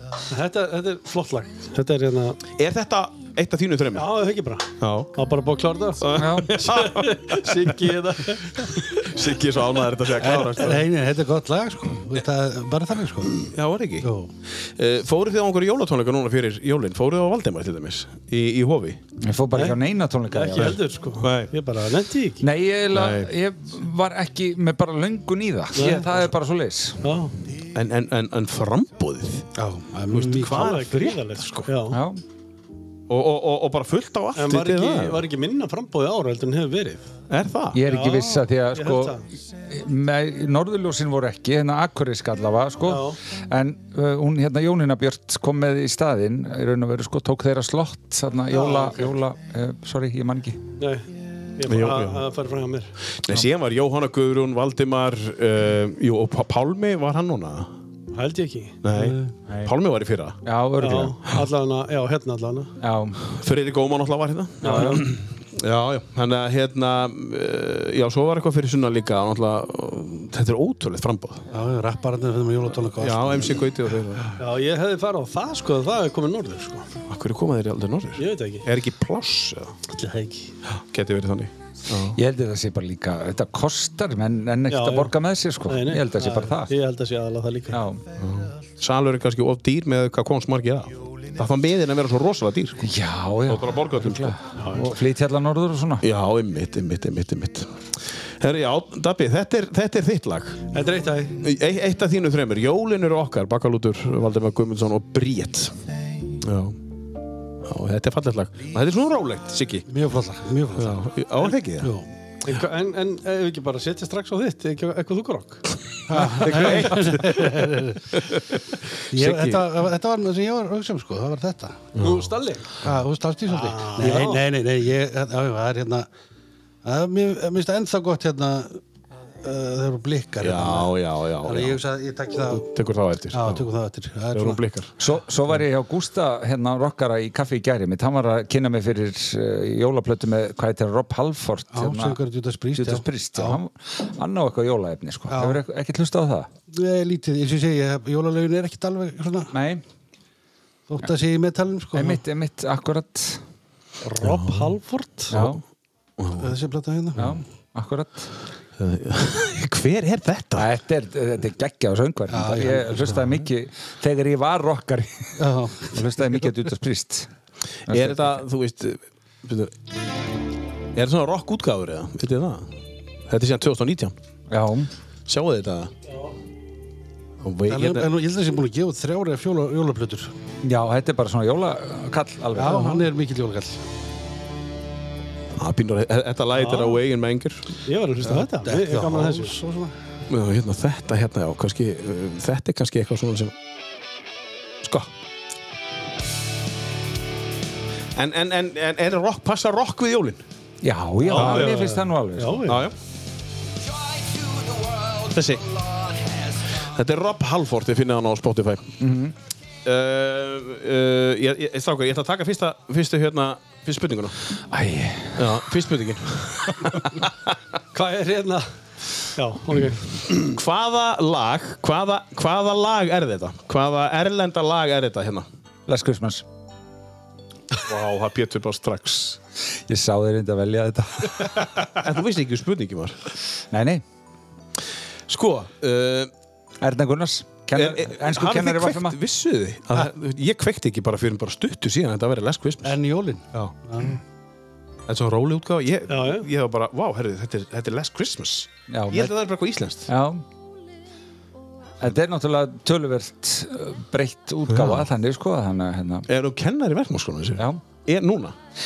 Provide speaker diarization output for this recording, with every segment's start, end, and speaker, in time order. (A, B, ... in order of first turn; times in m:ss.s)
0:00.3-0:02.4 A
0:02.5-0:04.1 B
0:03.9-0:09.1 A
0:04.8-0:05.1 B
0:06.0-0:07.8 B
0:06.1-0:06.6 C
0:08.6-0:10.8 B
0:10.2-0:13.4 D
0:13.4-0:14.1 B
0:14.0-0:14.3 D
0:14.6-0:19.0 B
0:19.2-0:20.8 C
0:20.3-0:22.4 A
0:21.2-0:21.5 B
0:22.4-0:27.0 C
0:22.9-0:23.3 B
0:25.7-0:26.1 A
0:27.0-0:27.3 A
0:27.7-0:29.5 B
0:29.6-0:30.6 D
0:30.1-0:31.7 B
0:30.5-0:32.0 A
0:31.9-0:32.2 C
0:33.1-0:35.2 B
0:34.3-0:37.2 A
0:37.3-0:37.8 B
0:37.7-0:50.6 C
0:37.8-0:39.2 A
0:42.8-0:43.2 A
0:48.5-0:49.1 A
0:50.8-0:52.9 A
0:51.7-0:52.3 B
0:53.2-0:57.7 B
0:58.1-0:59.1 A
0:58.8-1:00.4 B
0:58.9-0:59.2 D
1:00.4-1:01.2 C
1:00.8-1:02.7 A
1:02.8-1:03.2 C
1:03.3-1:11.5 B
1:04.6-1:05.0 A
1:04.6-1:05.0 C
1:11.5-1:13.6 D
1:12.9-1:14.3 B
1:14.4-1:16.9 A
1:17.1-1:19.8 B
1:18.2-1:18.6 A
1:19.8-1:20.5 A
1:20.7-1:22.2 B
1:22.1-1:26.7 C
1:24.7-1:25.1 A
1:25.7-1:27.8 A
1:27.7-1:28.0 C
1:28.2-1:32.8 B
1:32.8-1:36.0 C
1:33.5-1:34.4 B
1:34.6-1:34.8 A
1:36.0-1:37.8 B
1:38.4-1:40.6 B
1:40.7-1:41.3 A
1:41.4-1:45.7 B
1:46.4-1:46.8 B
1:47.6-1:49.8 B
1:49.9-1:51.1 D
1:50.8-1:51.9 B
1:51.8-1:52.0 D
1:52.4-1:55.6 A
1:56.1-1:58.0 D
1:56.1-1:57.6 B
1:58.1-1:58.6 B
1:59.1-1:59.7 B
1:59.1-2:01.9 D
2:02.0-2:02.3 B
2:02.0-2:02.7 A
2:02.8-2:06.1 D
2:03.5-2:04.4 A
2:06.8-2:08.8 D
2:09.4-2:10.9 D
2:10.4-2:11.8 B
2:11.4-2:12.7 D
2:12.6-2:13.7 B
2:13.3-2:14.6 D
2:14.3-2:14.9 B
2:15.0-2:22.2 C
2:21.7-2:23.6 D
2:22.7-2:26.5 C
2:25.3-2:25.6 D
2:26.7-2:29.5 D
2:29.5-2:29.8 C
2:30.9-2:32.2 D
2:31.9-2:33.4 C
2:34.0-2:35.4 A
2:34.2-2:34.7 B
2:35.3-2:35.6 C
2:36.2-2:36.5 B
2:36.4-2:37.3 D
2:37.2-2:38.3 C
2:38.8-2:40.7 B
2:40.6-2:47.3 C
2:42.3-2:43.4 D
2:45.4-2:46.0 D
2:47.9-2:48.4 C
2:47.9-2:49.7 B
2:50.9-2:52.7 B
2:53.3-2:54.1 B
2:54.5-2:54.9 C
2:55.3-2:55.9 B
2:57.4-2:58.1 B
2:57.7-3:00.3 D
3:00.6-3:03.0 C
3:02.5-3:03.8 D
3:05.6-3:07.7 B
3:06.5-3:07.0 A
3:07.8-3:09.5 A
3:08.2-3:09.9 D
3:10.3-3:13.5 B
3:14.8-3:15.1 B
3:18.2-3:20.4 B
3:20.8-3:22.6 C
3:21.2-3:22.8 A
3:21.3-3:21.7 B
3:22.7-3:22.9 B
3:25.0-3:25.8 B
3:26.7-3:29.0 B
3:29.0-3:29.3 C
3:29.8-3:34.4 B
3:34.7-3:35.6 C
3:35.4-3:37.5 B
3:37.9-3:38.6 A
3:39.4-3:40.5 A
3:40.4-3:45.4 B
3:45.9-3:46.4 C
3:47.8-3:49.4 B
3:49.9-3:51.9 C
3:51.9-3:53.2 B
3:53.7-3:54.0 C
3:55.3-3:56.3 B
3:56.8-3:59.2 C
3:57.7-4:03.0 B
4:02.8-4:04.2 D
4:05.1-4:10.1 B
4:06.1-4:06.5 A
4:08.9-4:09.3 C
4:10.1-4:10.4 C
4:12.0-4:16.2 C
4:14.7-4:15.0 B
4:16.3-4:18.5 B
4:17.6-4:17.8 C